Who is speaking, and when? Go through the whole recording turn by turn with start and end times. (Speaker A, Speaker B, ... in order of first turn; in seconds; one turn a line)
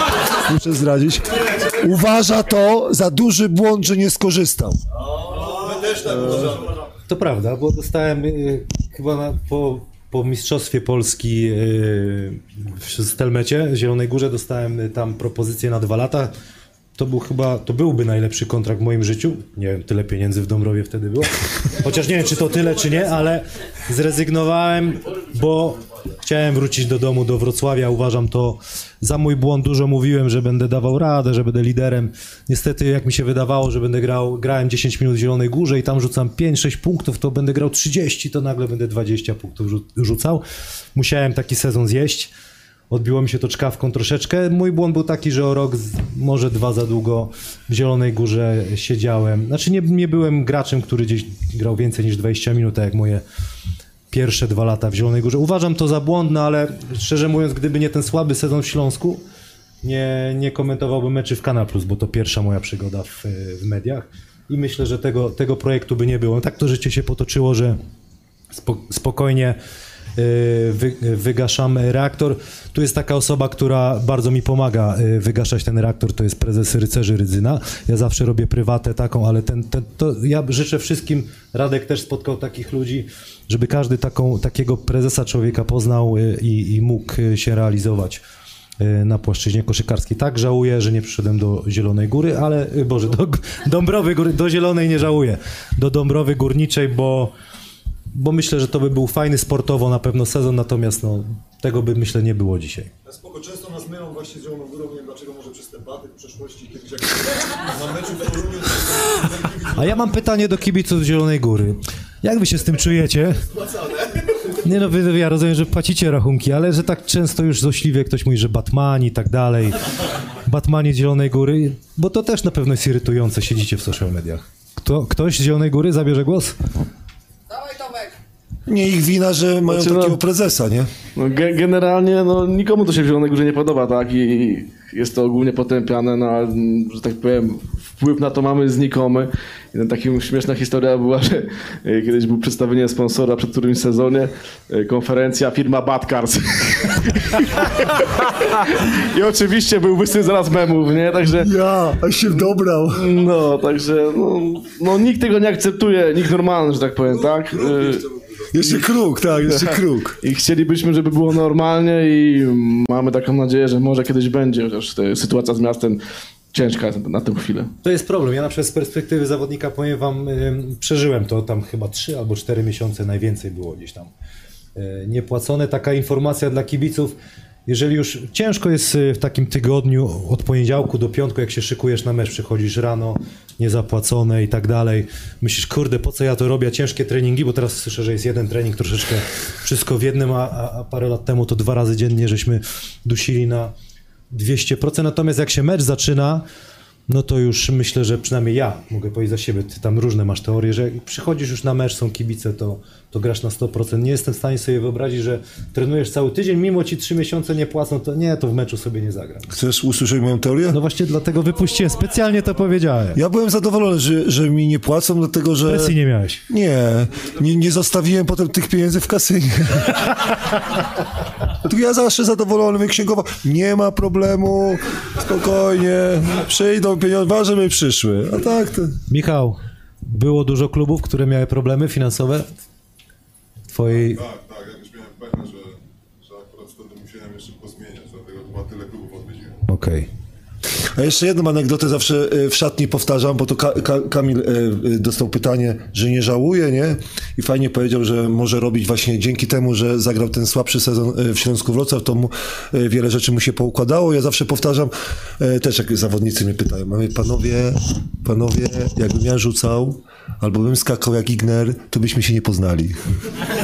Speaker A: 0.5-4.8
Speaker B: 5.0-6.8
Speaker C: 6.1-6.5
Speaker C: 7.1-16.3
Speaker C: 17.0-40.4
Speaker C: 41.0-42.3
Speaker C: 42.9-53.2
Speaker C: 54.1-59.2
Speaker C: 59.8-67.8
Speaker C: 68.5-69.6
Speaker C: 70.2-88.2
Speaker C: 88.8-97.3
Speaker C: 98.1-102.9
Speaker B: 103.0-110.2
Speaker C: 109.8-113.5
Speaker C: 114.6-119.8
Speaker C: 120.5-126.6
Speaker A: 128.7-130.9
Speaker D: 129.7-130.2
Speaker D: 131.2-147.7
Speaker D: 149.1-151.5
Speaker A: 151.4-153.0
Speaker D: 152.4-158.1
Speaker A: 158.5-160.2
Speaker D: 158.6-166.0
Speaker D: 166.5-167.7
Speaker C: 167.8-174.1
Speaker C: 174.8-177.2
Speaker C: 177.7-193.7
Speaker C: 194.3-196.4
Speaker C: 197.1-209.4
Speaker A: 209.5-210.8
Speaker C: 210.7-213.2
Speaker A: 213.2-215.9
Speaker C: 215.7-216.4
Speaker A: 216.5-220.0
Speaker A: 221.6-229.0
Speaker C: 229.1-232.5
Speaker C: 233.7-234.2
Speaker E: 233.9-239.6
Speaker C: 239.7-240.1
Speaker A: 241.0-263.0